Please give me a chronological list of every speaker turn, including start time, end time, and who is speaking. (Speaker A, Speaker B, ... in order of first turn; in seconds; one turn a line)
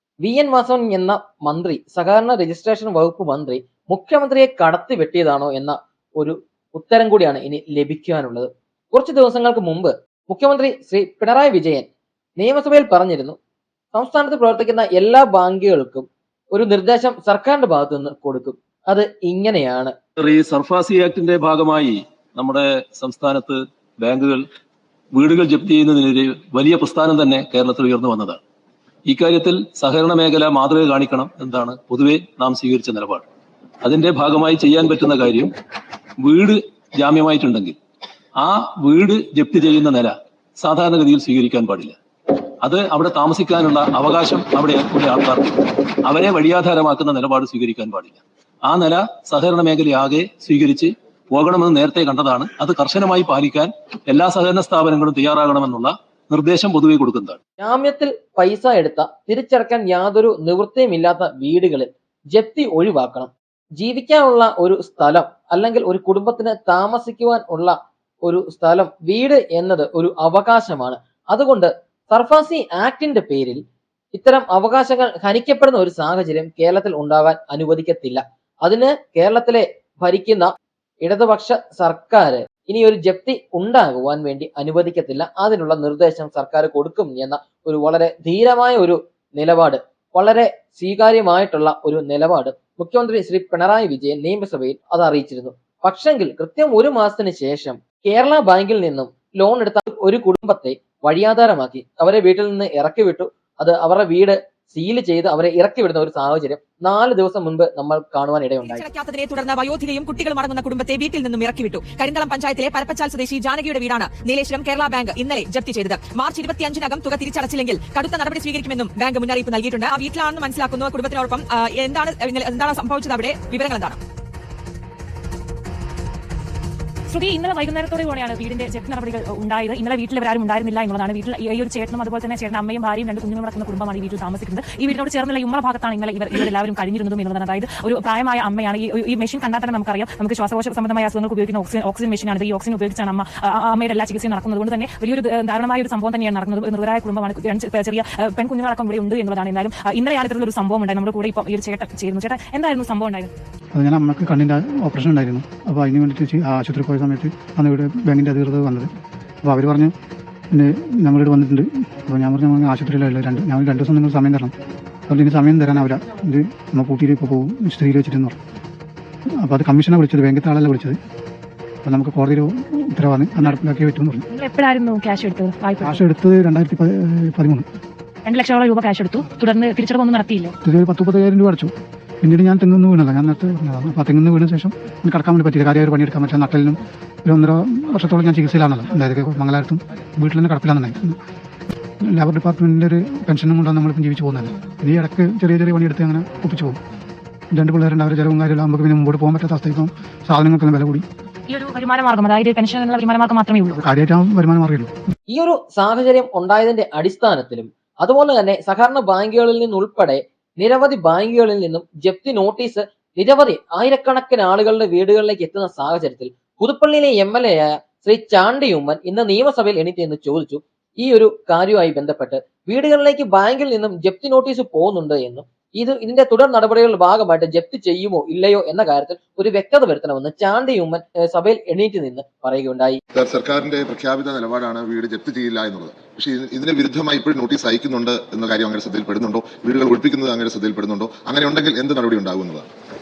Speaker A: 0.2-11.9
Speaker A: 12.4-13.4
Speaker A: 13.9-19.9
Speaker B: 20.2-24.4
Speaker B: 25.1-28.4
Speaker B: 29.1-33.2
Speaker B: 33.8-35.5
Speaker B: 36.2-37.8
Speaker B: 38.4-42.0
Speaker B: 42.6-57.4
Speaker A: 57.6-73.6
Speaker A: 74.1-108.8
Speaker C: 108.6-124.0
Speaker D: 127.1-153.3
Speaker E: 153.7-158.9
Speaker E: 159.4-159.9
Speaker E: 160.5-164.5
Speaker E: 165.1-168.4
Speaker E: 169.4-171.0
Speaker E: 171.8-174.2
Speaker D: 174.3-176.0
Speaker E: 175.8-177.7
Speaker D: 178.2-180.6
Speaker E: 180.6-181.7
Speaker E: 182.2-191.2
Speaker E: 192.1-196.8
Speaker E: 197.5-201.1
Speaker D: 201.5-203.8
Speaker E: 203.8-204.9
Speaker A: 205.3-233.0
Speaker F: 233.2-242.7